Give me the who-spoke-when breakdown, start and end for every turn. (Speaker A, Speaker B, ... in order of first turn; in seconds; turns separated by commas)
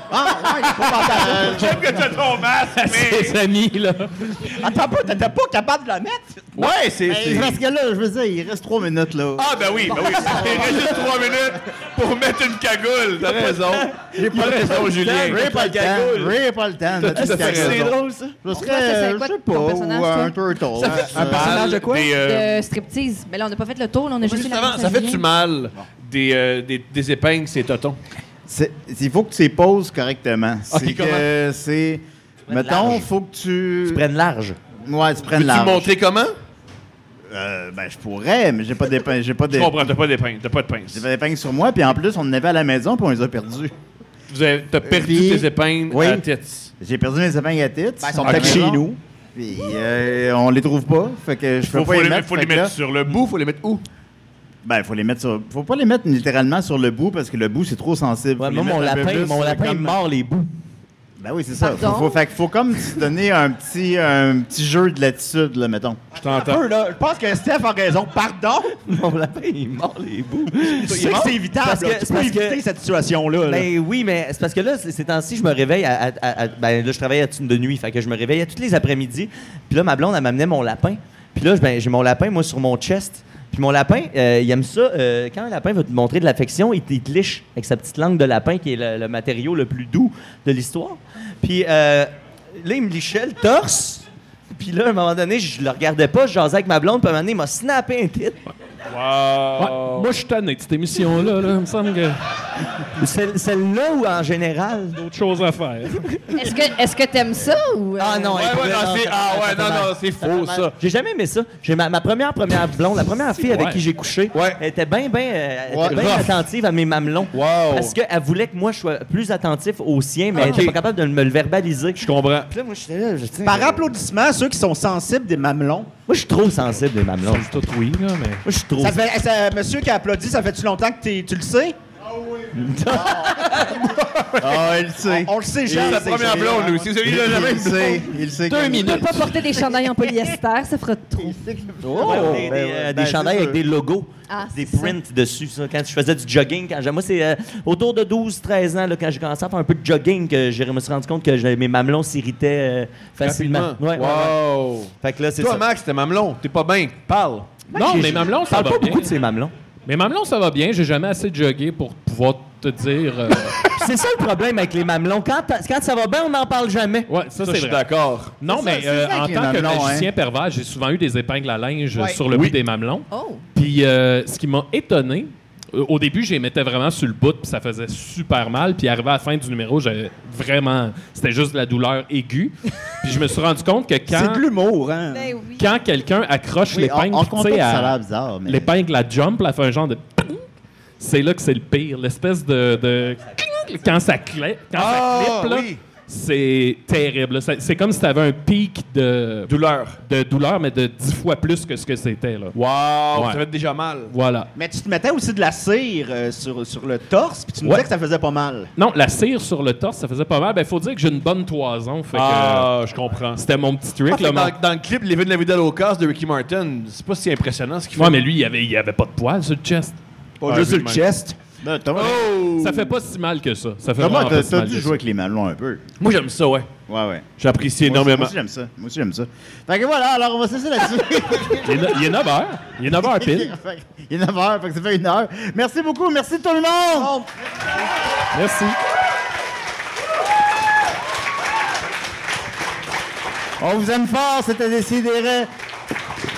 Speaker A: 0.1-1.8, Speaker B: 1.2-3.4, Speaker C: 2.8-4.3, Speaker A: 4.4-6.7, Speaker B: 6.5-7.6, Speaker D: 7.1-11.2, Speaker B: 9.4-16.4, Speaker D: 14.2-21.8, Speaker E: 15.1-15.4, Speaker B: 17.0-18.0, Speaker E: 17.1-18.4, Speaker F: 18.5-20.4, Speaker B: 20.8-22.6, Speaker F: 20.9-25.2, Speaker B: 24.2-28.0, Speaker D: 28.5-34.0, Speaker B: 30.7-31.3, Speaker E: 32.5-33.1, Speaker E: 33.9-34.6, Speaker D: 34.8-35.9, Speaker B: 35.3-36.4, Speaker D: 37.3-39.9, Speaker B: 39.5-41.0, Speaker D: 40.9-43.7, Speaker B: 44.3-46.7, Speaker D: 44.8-46.2, Speaker D: 46.8-52.8, Speaker A: 48.0-49.0, Speaker B: 51.6-53.8, Speaker D: 54.6-60.0, Speaker E: 58.4-60.5, Speaker D: 61.2-66.0, Speaker F: 61.6-62.2, Speaker B: 66.2-66.6, Speaker A: 66.2-68.8, Speaker E: 68.8-72.6, Speaker A: 70.6-73.7, Speaker E: 73.5-98.4, Speaker B: 98.9-100.1, Speaker C: 99.6-102.2, Speaker E: 103.0-105.0, Speaker C: 105.0-106.0, Speaker E: 106.0-106.4, Speaker F: 106.3-108.4, Speaker E: 108.0-123.9, Speaker B: 108.3-110.8, Speaker C: 113.5-113.8, Speaker B: 114.3-114.6, Speaker D: 115.7-116.0, Speaker B: 115.8-116.4, Speaker B: 117.3-117.9, Speaker B: 120.4-120.8, Speaker F: 120.4-120.7, Speaker B: 122.0-122.5, Speaker A: 123.5-125.9, Speaker E: 126.1-127.5, Speaker C: 127.2-128.4, Speaker E: 128.4-129.0, Speaker A: 128.8-131.8, Speaker D: 132.5-139.9, Speaker A: 135.0-136.6, Speaker B: 135.7-138.1, Speaker C: 138.5-139.0, Speaker F: 138.6-141.4, Speaker D: 141.2-143.6, Speaker B: 141.9-142.4, Speaker E: 141.9-154.4, Speaker A: 142.0-142.3, Speaker F: 144.3-145.0, Speaker B: 153.2-157.6, Speaker E: 155.0-155.7, Speaker C: 157.7-159.1, Speaker E: 157.7-159.5, Speaker C: 159.9-163.6, Speaker E: 163.6-167.1, Speaker C: 167.1-167.8, Speaker B: 167.3-168.4, Speaker C: 168.4-184.4, Speaker D: 168.5-170.1, Speaker B: 172.3-172.6, Speaker F: 173.1-173.4, Speaker A: 184.1-185.3, Speaker F: 185.1-185.7, Speaker C: 185.6-190.5, Speaker D: 186.7-188.7, Speaker C: 191.0-202.5, Speaker B: 194.7-195.8, Speaker B: 199.5-200.0, Speaker B: 202.6-204.1, Speaker C: 203.1-203.4, Speaker C: 204.1-204.5, Speaker A: 204.6-208.7, Speaker C: 208.8-212.7, Speaker B: 212.1-213.4, Speaker C: 213.4-214.6, Speaker B: 214.1-218.2, Speaker C: 218.0-220.0, Speaker B: 220.4-221.2, Speaker A: 220.4-221.4, Speaker D: 221.6-222.4, Speaker B: 221.9-222.9, Speaker C: 222.6-225.0, Speaker D: 224.0-225.8, Speaker B: 226.0-226.7, Speaker D: 226.9-227.3, Speaker B: 227.4-228.3, Speaker D: 227.8-232.1, Speaker C: 231.6-233.5, Speaker D: 232.9-237.2, Speaker A: 237.0-237.3, Speaker C: 238.3-238.8, Speaker D: 243.6-245.5